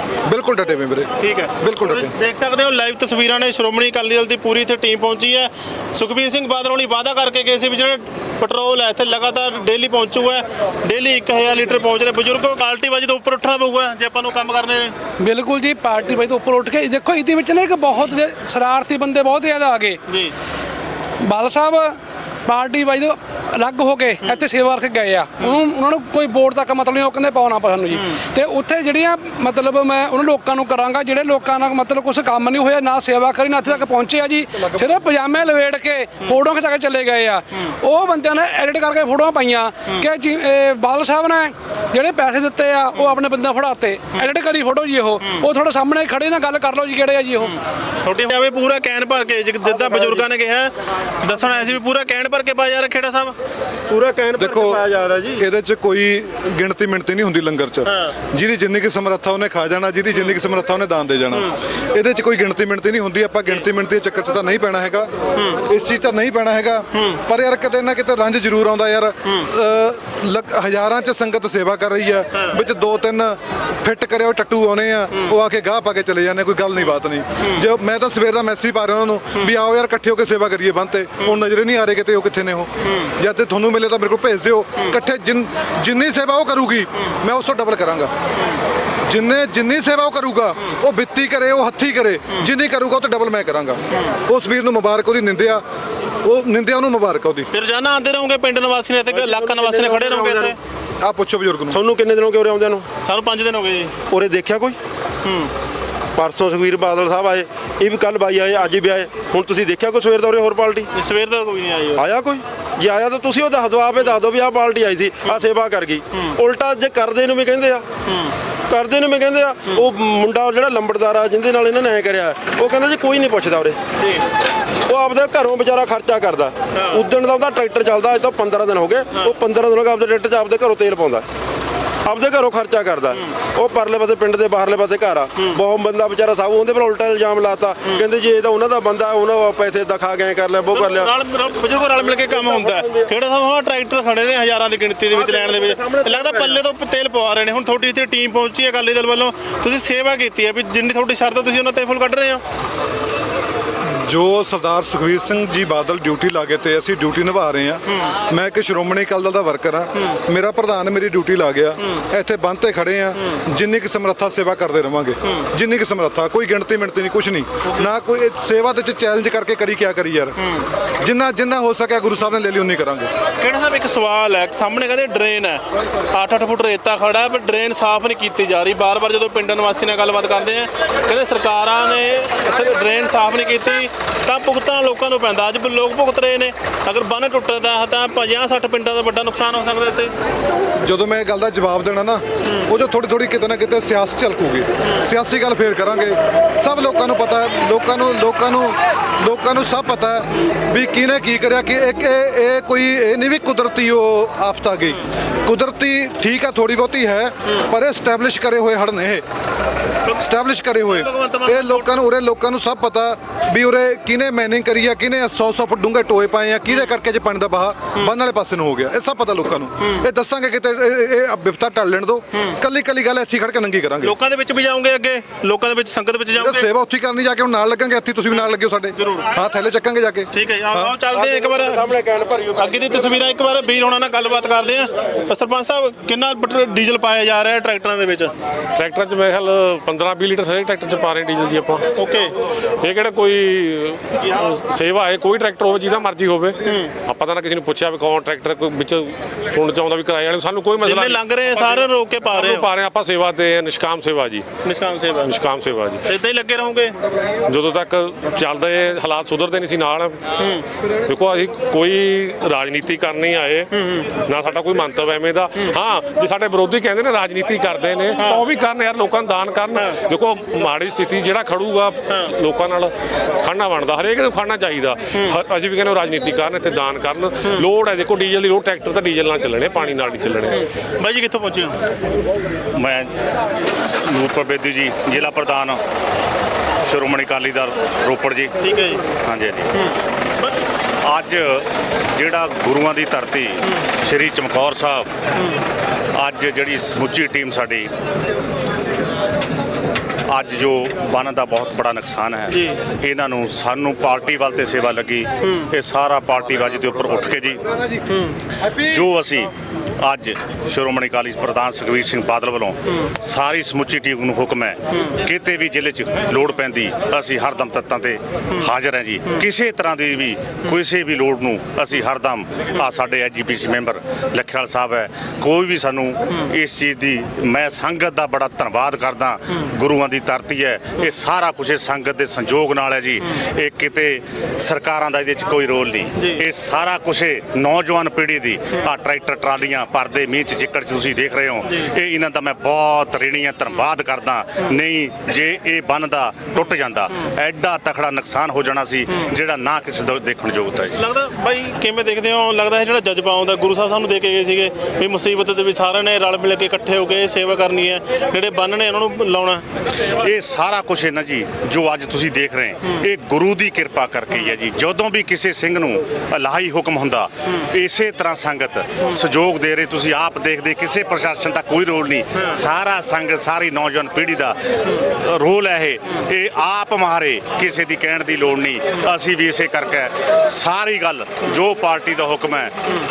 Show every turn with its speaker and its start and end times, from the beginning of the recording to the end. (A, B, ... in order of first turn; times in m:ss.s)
0:00.2-0:02.1 A
0:01.2-0:14.9 B
0:15.2-0:20.0 C
0:20.1-0:20.3 B
0:21.2-0:47.6 C
0:27.9-0:28.2 B
0:47.4-0:53.3 B
0:49.6-0:50.2 D
0:53.9-0:55.4 D
0:54.4-0:54.8 A
0:55.4-1:05.1 A
0:57.9-0:58.1 B
1:05.6-1:28.1 A
1:06.9-1:07.2 B
1:22.8-1:23.1 B
1:29.1-1:35.6 A
1:36.2-1:37.5 A
1:37.5-1:40.6 B
1:39.1-1:40.5 D
1:41.0-1:41.8 A
1:41.7-1:42.8 D
1:43.0-1:44.0 B
1:44.1-1:44.8 D
1:45.2-1:45.5 B
1:46.2-1:50.9 D
1:50.9-1:52.0 B
1:52.0-1:57.8 D
1:58.1-1:58.3 B
1:58.7-2:03.8 D
2:04.9-2:11.2 D
2:06.7-2:07.0 B
2:12.0-2:21.1 D
2:20.7-2:32.4 B
2:22.0-2:23.1 D
2:25.1-2:26.6 D
2:34.0-2:50.4 A
2:51.0-2:53.1 A
2:53.4-2:55.6 B
2:56.1-3:10.1 B
3:10.8-3:29.2 A
3:30.2-3:44.1 A
3:30.8-3:31.9 B
3:44.0-3:46.7 B
3:46.3-3:51.0 A
3:49.0-3:49.3 B
3:50.3-3:51.8 B
3:51.1-3:53.0 D
3:52.6-3:58.3 B
3:58.8-4:01.8 E
4:02.0-4:02.3 B
4:02.8-4:14.4 E
4:06.6-4:06.9 B
4:10.8-4:12.7 B
4:14.6-4:15.3 B
4:15.2-4:16.0 E
4:16.0-4:16.9 B
4:17.5-4:20.2 E
4:20.4-4:20.6 B
4:21.1-4:23.7 E
4:23.7-4:24.1 B
4:24.3-4:32.9 E
4:28.2-4:28.4 B
4:33.4-4:40.6 E
4:40.5-4:41.8 B
4:42.7-4:43.1 F
4:44.0-4:45.8 F
4:46.8-4:48.5 F
4:48.6-4:49.0 B
4:49.2-4:49.7 F
4:49.7-4:50.6 B
4:51.1-4:55.1 F
4:56.2-4:57.9 F
5:00.3-5:07.6 F
5:02.5-5:02.8 B
5:08.7-5:51.0 F
5:36.2-5:36.4 B
5:50.9-5:59.6 B
6:00.2-6:22.7 F